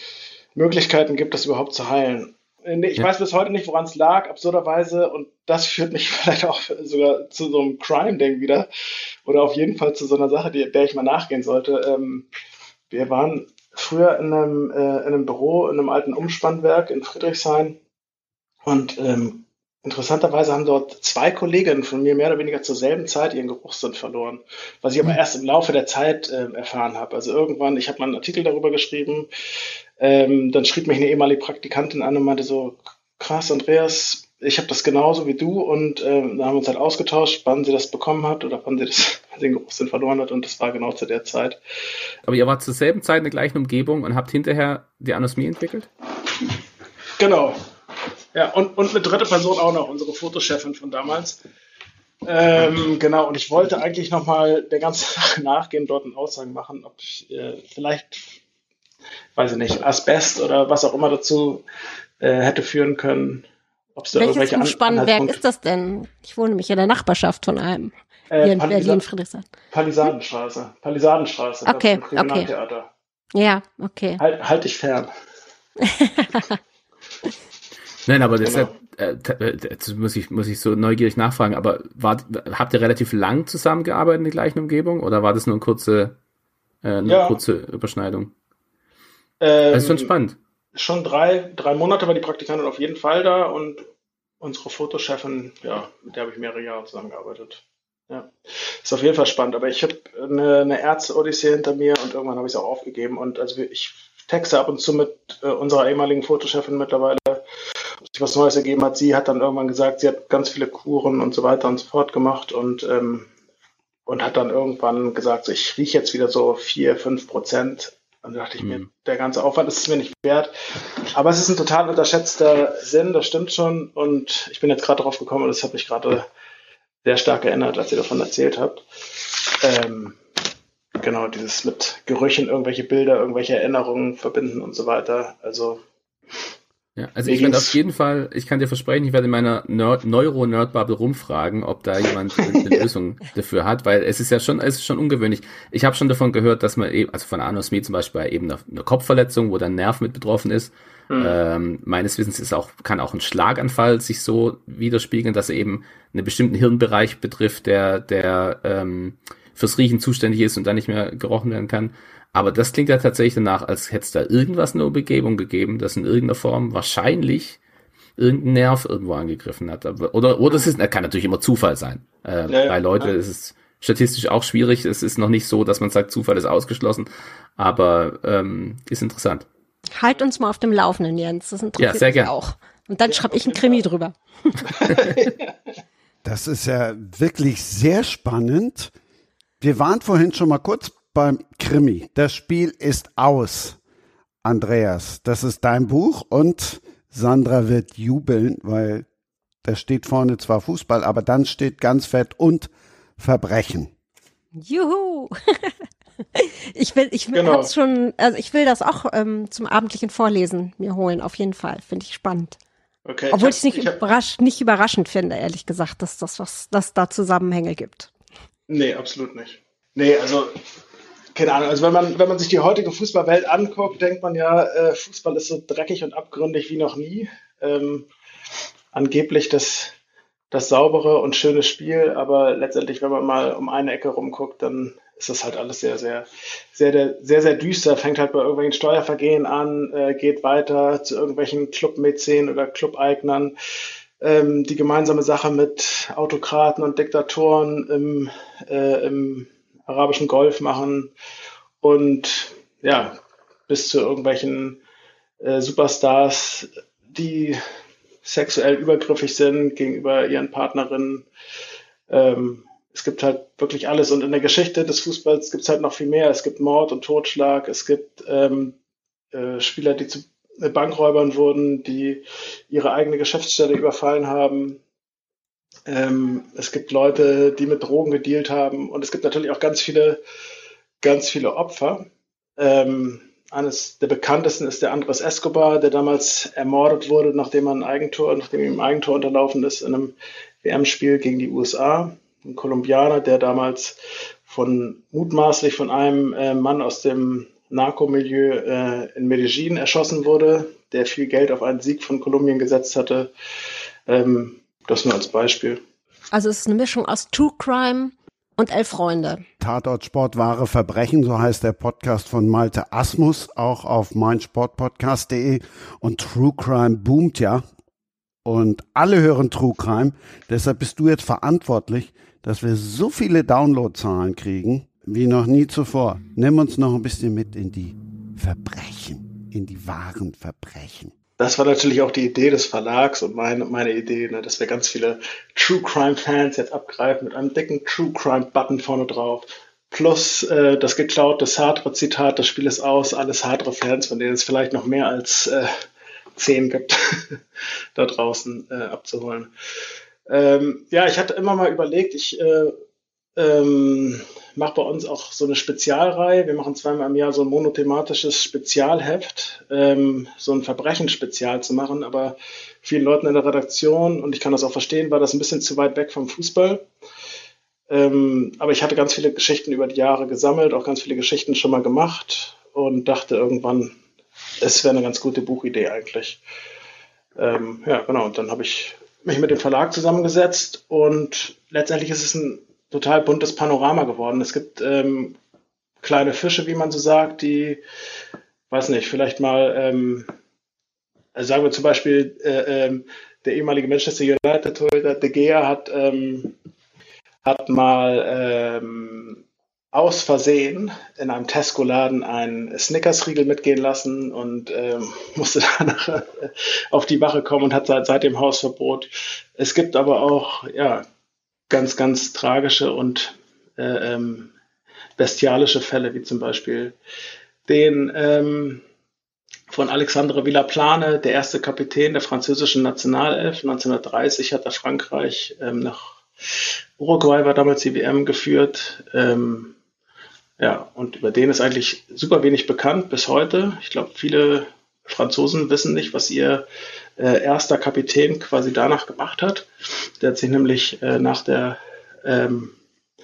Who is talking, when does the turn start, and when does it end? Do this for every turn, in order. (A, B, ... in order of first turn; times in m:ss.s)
0:00.6-0:08.7 A
0:09.3-0:12.3 A
0:12.9-0:17.8 A
0:18.6-0:29.3 A
0:30.0-0:41.6 A
0:42.3-0:45.9 B
0:47.2-0:47.6 A
0:48.3-0:51.4 A
0:52.2-0:58.4 A
0:59.4-1:01.6 A
1:02.2-1:03.4 A
1:04.0-1:05.4 A
1:04.2-1:09.5 C
1:08.3-1:09.0 A
1:09.7-1:12.9 A
1:11.7-1:12.5 C
1:13.4-1:14.2 C
1:14.2-1:15.1 A
1:15.9-1:16.6 C
1:18.1-1:26.2 B
1:18.4-1:18.7 A
1:26.8-1:28.3 B
1:27.0-1:27.4 A
1:29.4-1:30.1 A
1:29.7-1:30.4 B
1:30.8-1:33.8 A
1:34.4-1:47.4 A
1:48.1-1:53.3 A
1:54.1-2:00.5 A
1:58.6-1:58.9 B
2:01.1-2:06.3 A
2:07.0-2:10.2 A
2:11.0-2:15.8 A
2:17.0-2:47.6 B
2:17.3-2:17.8 A
2:31.1-2:31.4 A
2:48.2-2:59.5 B
2:52.5-2:53.1 A
3:00.0-3:04.7 C
3:01.8-3:02.3 B
3:03.1-3:03.9 A
3:04.6-3:05.6 A
3:06.2-3:08.9 D
3:09.6-3:13.8 D
3:14.4-3:19.1 D
3:19.6-3:23.9 D
3:24.6-3:25.7 C
3:26.4-3:32.6 C
3:27.3-3:27.7 A
3:33.0-3:34.0 A
3:33.3-3:38.1 C
3:38.7-3:40.5 A
3:41.4-3:48.1 A
3:48.9-3:50.0 A
3:50.5-4:03.6 A
4:04.2-4:11.1 A
4:11.8-4:13.2 A
4:13.7-4:14.8 A
4:15.4-4:17.6 A
4:18.2-4:21.3 A
4:22.1-4:28.8 A
4:29.3-4:34.8 A
4:35.9-4:40.2 A
4:41.0-5:03.3 A
5:04.1-5:05.8 A
5:06.3-5:09.4 C
5:09.6-5:17.6 D
5:18.4-5:31.1 D
5:31.4-5:45.8 A
5:46.4-5:47.4 A
5:48.0-5:49.5 A
5:50.3-5:52.8 A
5:53.4-6:06.8 A
6:07.9-6:14.0 A
6:14.6-6:16.4 A
6:17.4-6:25.4 A
6:26.0-6:27.8 A
6:28.7-6:30.3 A
6:31.4-6:36.6 A
6:37.4-6:39.4 A
6:39.9-6:51.0 A
6:51.7-6:54.5 A
6:55.2-6:57.0 A
6:57.7-6:58.8 A
6:59.7-7:09.7 A
7:10.6-7:16.6 A
7:17.2-7:19.7 A
7:20.2-7:22.8 A